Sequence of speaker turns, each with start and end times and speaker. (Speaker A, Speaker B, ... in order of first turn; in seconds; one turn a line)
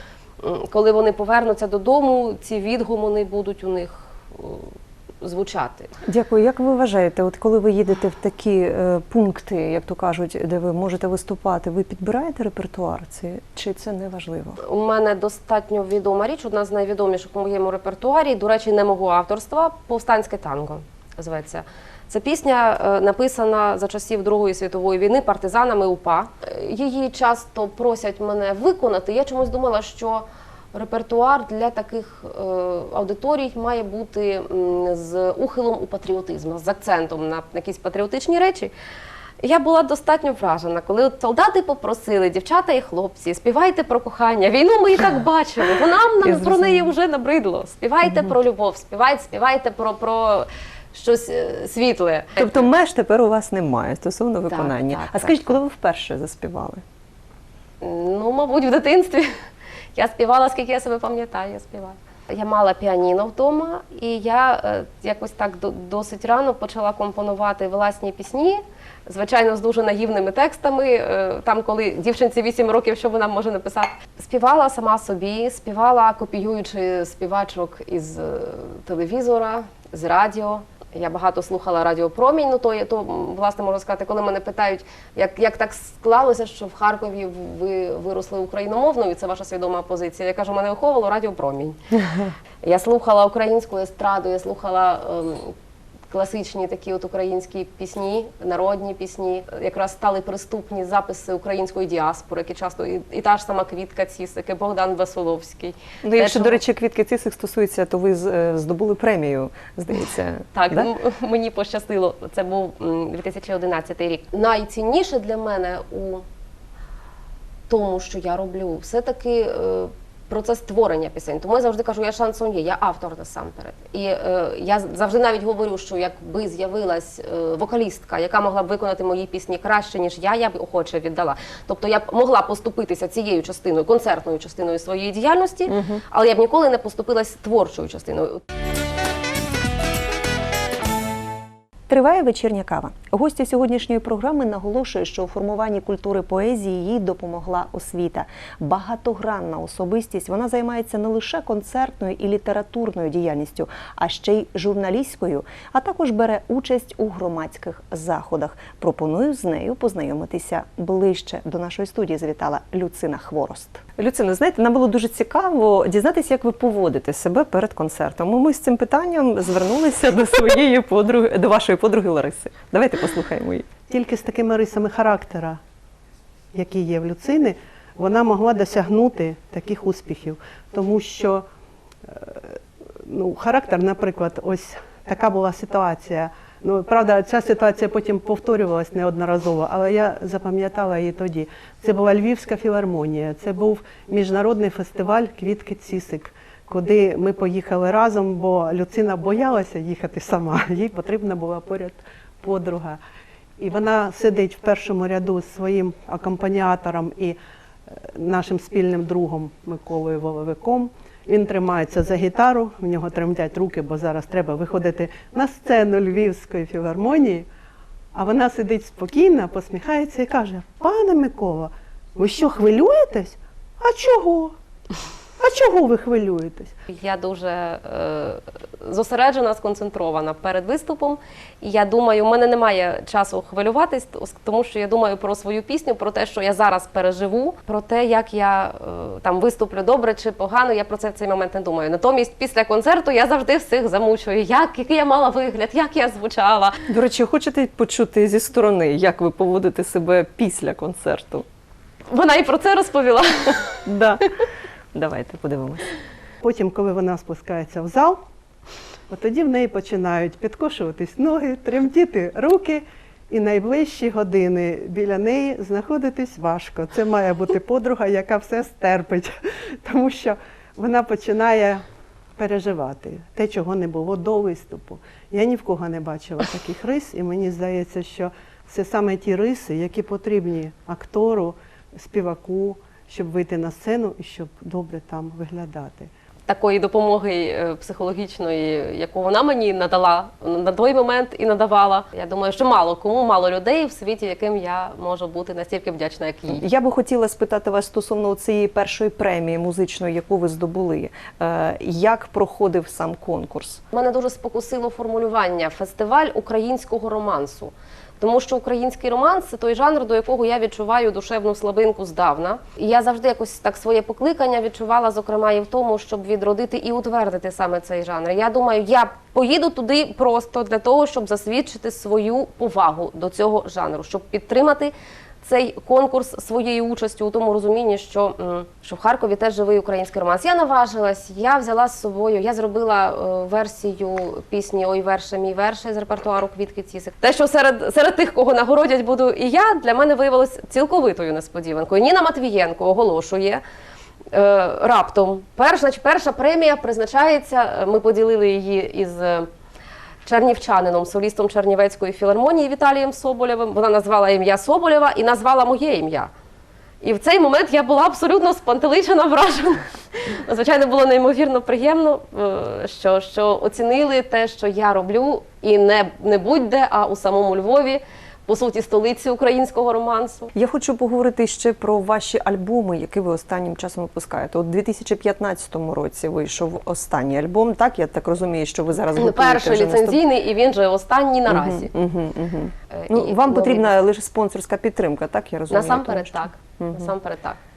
Speaker A: 0.4-5.9
Speaker B: 6.1-14.6
Speaker A: 14.6-38.7
Speaker A: 39.4-52.6
Speaker B: 46.2-46.9
Speaker B: 48.0-48.3
Speaker B: 52.4-56.8
Speaker A: 54.5-55.6
Speaker A: 57.8-59.3
Speaker A: 59.9-91.8
Speaker A: 92.6-95.5
Speaker A: 96.1-106.6
Speaker B: 106.0-110.9
Speaker A: 110.5-116.2
Speaker A: 117.7-138.4
Speaker B: 135.7-136.0
Speaker B: 141.9-173.7
Speaker C: 173.9-175.6
Speaker C: 176.5-181.4
Speaker C: 182.1-203.0
Speaker C: 203.6-207.4
Speaker C: 207.9-217.4
Speaker C: 218.1-224.5
Speaker C: 225.4-226.7
Speaker A: 226.9-246.8
Speaker B: 246.9-251.5
Speaker A: 252.1-253.8
Speaker B: 253.9-254.2
Speaker B: 254.9-255.8
Speaker C: 256.4-258.2
Speaker C: 259.1-269.3
Speaker C: 269.8-271.8
Speaker C: 272.4-286.1
Speaker A: 286.5-296.6
Speaker B: 296.5-303.8
Speaker A: 303.9-343.6
Speaker A: 344.3-349.5
Speaker A: 350.2-356.3
Speaker A: 357.0-370.5
Speaker B: 370.5-380.2
Speaker A: 379.1-381.9
Speaker B: 381.5-387.1
Speaker A: 382.9-383.9
Speaker A: 385.7-387.6